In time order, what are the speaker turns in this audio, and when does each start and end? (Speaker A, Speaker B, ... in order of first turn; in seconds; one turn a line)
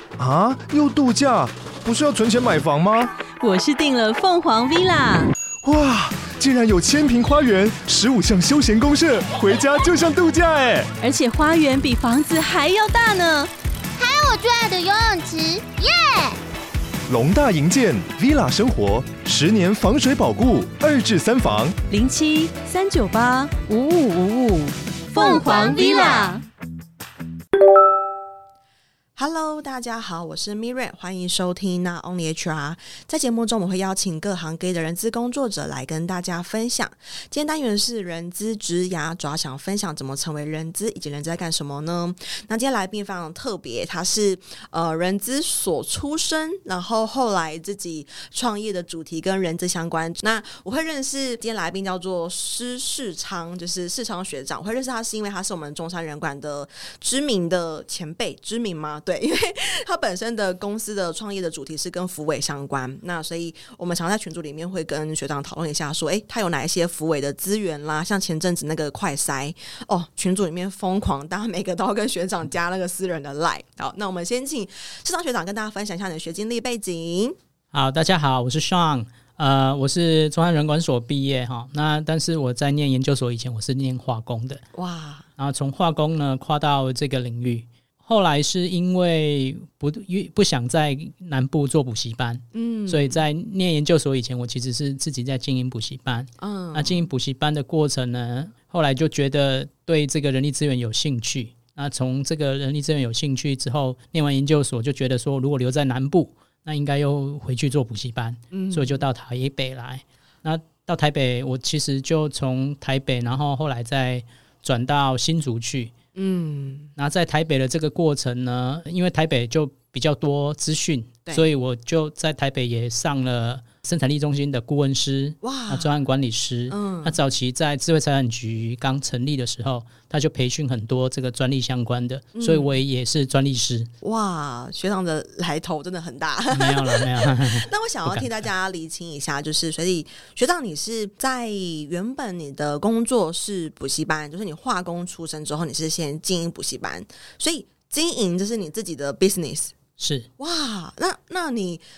Speaker A: 0.2-3.1
Speaker B: 3.4-5.3
Speaker A: 5.6-10.9
Speaker B: 11.0-13.5
Speaker C: 14.0-16.4
Speaker A: 17.1-21.8
Speaker B: 21.9-26.4
Speaker C: 25.1-26.4
Speaker D: 29.1-77.3
Speaker E: 77.7-84.6
Speaker D: 84.7-85.3
Speaker E: 85.4-115.9
Speaker D: 92.5-93.2
Speaker D: 96.4-97.0
Speaker D: 108.5-109.0
Speaker D: 116.1-116.9
Speaker E: 117.0-133.9
Speaker D: 125.4-125.9
Speaker D: 126.7-127.2
Speaker D: 132.3-132.7
Speaker D: 134.0-149.7
Speaker E: 136.5-138.3
Speaker E: 150.0-150.3
Speaker D: 150.4-151.8